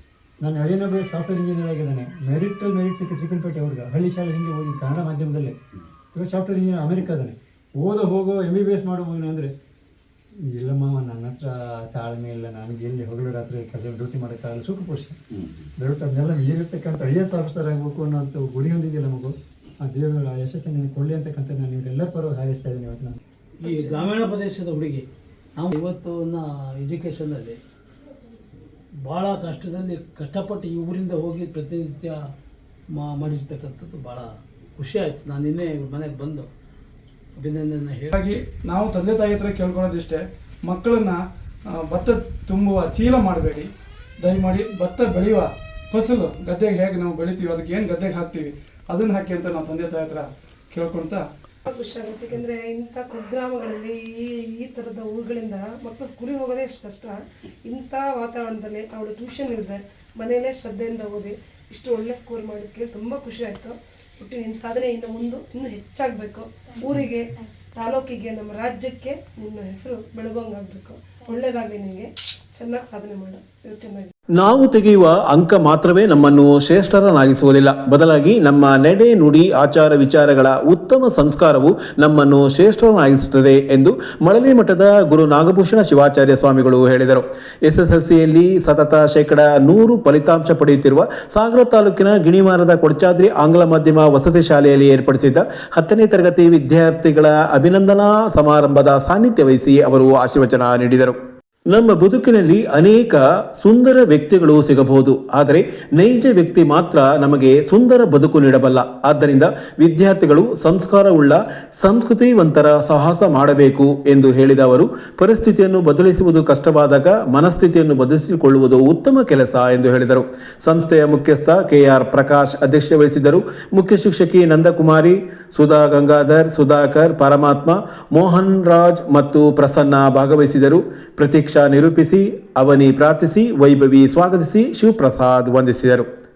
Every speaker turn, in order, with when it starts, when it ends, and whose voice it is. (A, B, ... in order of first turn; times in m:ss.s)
0:00.4-0:05.5 A
0:06.1-0:09.5 A
0:10.5-0:15.2 A
0:15.8-0:23.2 A
0:23.6-0:27.6 B
0:23.7-0:24.0 C
0:29.0-0:32.2 B
0:32.9-0:36.5 B
0:37.3-0:38.1 B
0:38.1-0:41.2 D
0:41.7-0:43.7 D
0:44.2-0:51.2 D
0:51.6-1:14.1 C
1:14.4-1:41.2 E
1:41.7-2:16.0 E